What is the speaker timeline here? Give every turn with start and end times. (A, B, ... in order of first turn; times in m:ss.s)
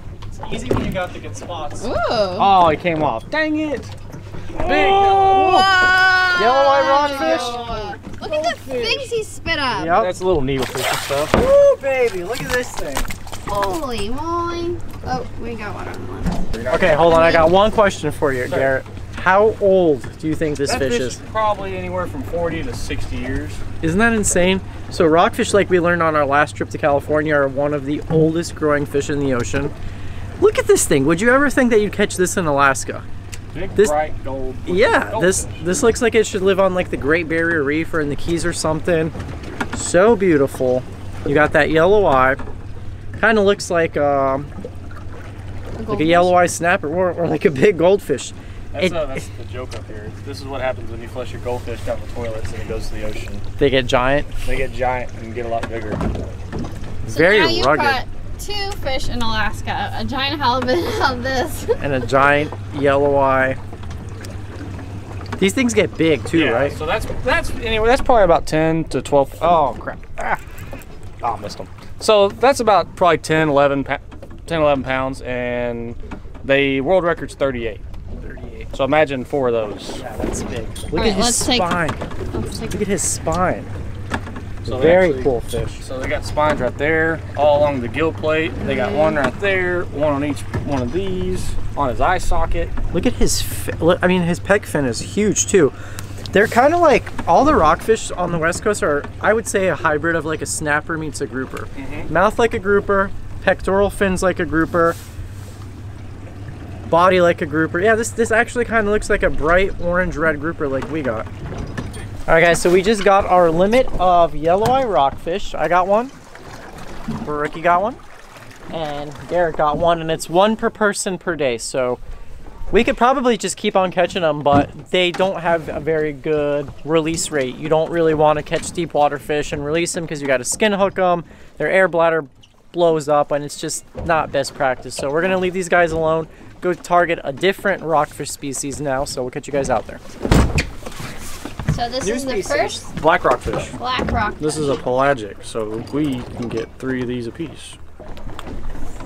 0:00.4-0:01.9 A
0:01.8-0:02.5 B
0:02.4-0:03.9 C
0:04.6-0:05.2 A
0:04.6-0:05.7 C
0:05.3-0:09.9 B
0:06.3-0:07.7 A
0:07.1-0:09.1 C
0:09.7-0:10.1 A
0:09.9-0:11.4 C
0:11.3-0:13.1 A
0:13.4-0:16.4 B
0:16.5-0:17.1 C
0:16.7-0:21.2 A
0:17.1-0:17.5 B
0:18.4-0:18.8 C
0:20.7-0:23.6 C
0:23.8-0:29.7 A
0:30.4-0:33.0 A
0:33.5-0:35.5 C
0:34.7-0:39.2 A
0:39.7-0:42.4 A
0:43.2-0:44.5 A
0:45.8-0:46.3 B
0:45.9-0:49.2 A
0:48.7-0:53.4 C
0:53.6-0:54.3 A
0:54.4-0:56.0 C
0:57.0-0:58.0 A
0:57.1-1:02.1 B
1:01.8-1:03.6 A
1:05.4-1:06.8 A
1:06.3-1:10.4 C
1:11.2-1:17.8 C
1:18.2-1:18.7 A
1:18.7-1:20.0 C
1:20.0-1:22.0 A
1:20.9-1:22.9 B
1:22.7-1:23.7 A
1:24.6-1:25.8 A
1:24.6-1:32.7 C
1:28.6-1:29.2 B
1:32.9-1:35.8 A
1:36.3-1:45.0 A
1:41.8-1:42.1 C
1:46.9-1:51.3 A
1:52.3-1:56.1 A
1:57.2-1:58.0 A
1:58.7-2:02.0 A
2:02.7-2:20.0 A
2:21.7-2:22.9 B
2:22.0-2:22.9 A
2:23.0-2:23.8 C
2:23.7-2:24.8 B
2:24.4-2:27.8 C